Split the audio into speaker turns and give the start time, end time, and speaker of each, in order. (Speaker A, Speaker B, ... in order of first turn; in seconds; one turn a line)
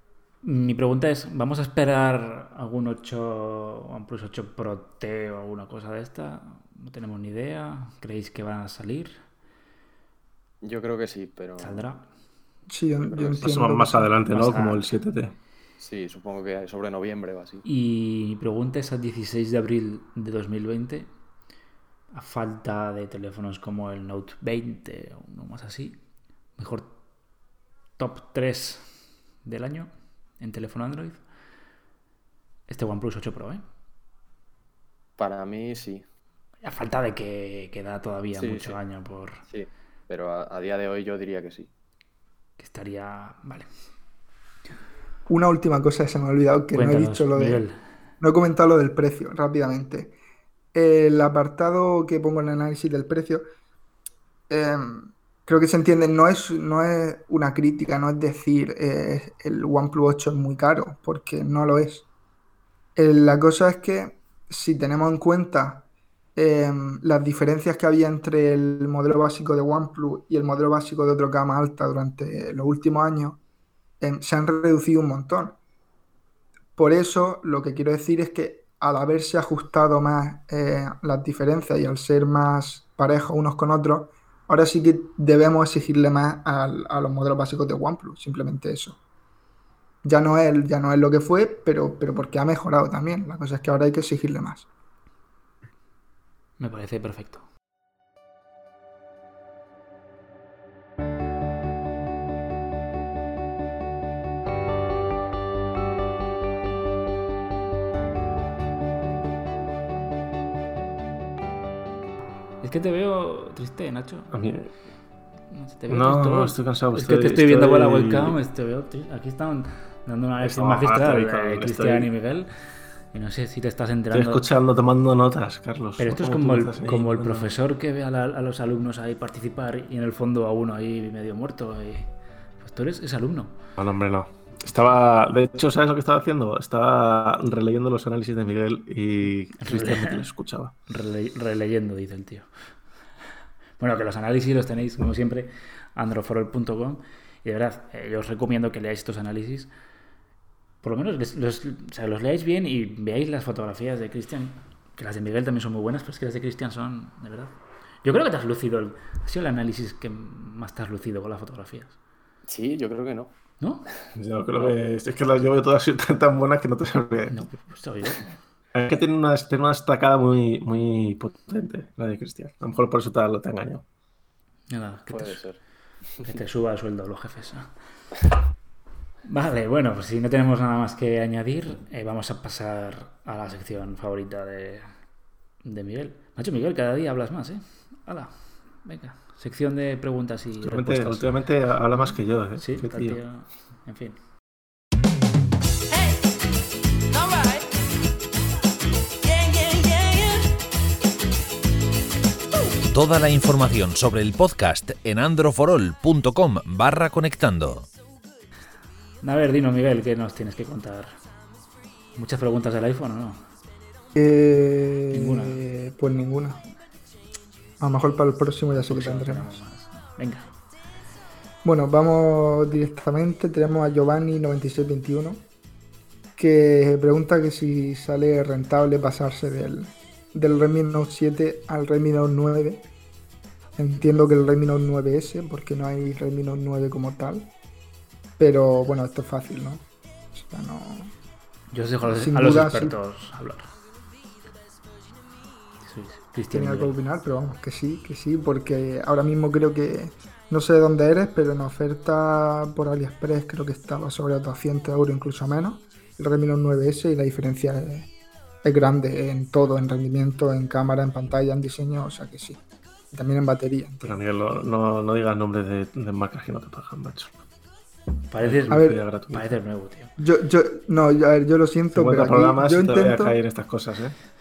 Speaker A: 0.4-9.2
Speaker B: 10.6-11.9
Speaker A: 11.6-12.1
Speaker C: 12.7-14.1
Speaker D: 13.4-15.3
Speaker A: 14.3-15.0
Speaker B: 15.8-17.6
Speaker A: 17.6-21.1
Speaker A: 22.1-26.0
Speaker A: 26.6-27.0
Speaker A: 28.0-31.2
Speaker A: 32.7-33.6
Speaker B: 35.2-36.0
Speaker A: 36.6-39.4
Speaker B: 38.4-38.8
Speaker B: 39.5-41.7
Speaker A: 42.6-43.7
Speaker C: 45.3-47.6
Speaker A: 46.7-47.8
Speaker C: 48.2-50.2
Speaker C: 50.7-53.4
Speaker C: 54.5-62.1
Speaker C: 63.0-73.4
Speaker C: 74.0-75.6
Speaker C: 76.8-89.0
Speaker C: 90.0-94.7
Speaker A: 96.6-97.4
Speaker A: 112.6-114.3
Speaker D: 114.3-114.7
Speaker A: 115.5-122.5
Speaker D: 115.9-118.4
Speaker D: 120.4-122.1
Speaker A: 123.1-124.4
Speaker D: 124.1-127.5
Speaker A: 126.0-132.1
Speaker A: 132.6-133.6
Speaker D: 133.8-140.7
Speaker A: 139.6-140.2
Speaker A: 140.9-142.5
Speaker A: 143.8-149.7
Speaker A: 150.8-161.9
Speaker B: 162.5-163.3
Speaker A: 163.6-163.9
Speaker D: 164.1-167.4
Speaker A: 167.3-168.4
Speaker D: 168.7-173.8
Speaker A: 174.7-175.4
Speaker B: 175.1-175.6
Speaker A: 176.2-177.7
Speaker A: 179.2-184.9
Speaker A: 185.6-191.3
Speaker D: 190.6-193.2
Speaker A: 191.9-194.2
Speaker E: 202.9-207.9
Speaker A: 209.2-211.1
Speaker A: 212.2-213.4
Speaker C: 214.1-216.6
Speaker A: 215.1-215.6
Speaker C: 217.8-219.6
Speaker A: 218.7-220.5
Speaker C: 221.6-225.4
Speaker C: 226.4-232.9
Speaker C: 233.8-237.5
Speaker C: 238.4-241.1
Speaker A: 241.7-243.7
Speaker C: 242.0-242.9
Speaker A: 245.8-246.9
Speaker C: 246.5-258.1
Speaker C: 258.6-262.6
Speaker C: 263.1-264.1
Speaker D: 264.0-267.4
Speaker A: 268.3-270.1
Speaker D: 268.4-269.5
Speaker C: 268.7-269.0
Speaker C: 270.2-273.4
Speaker D: 271.9-274.1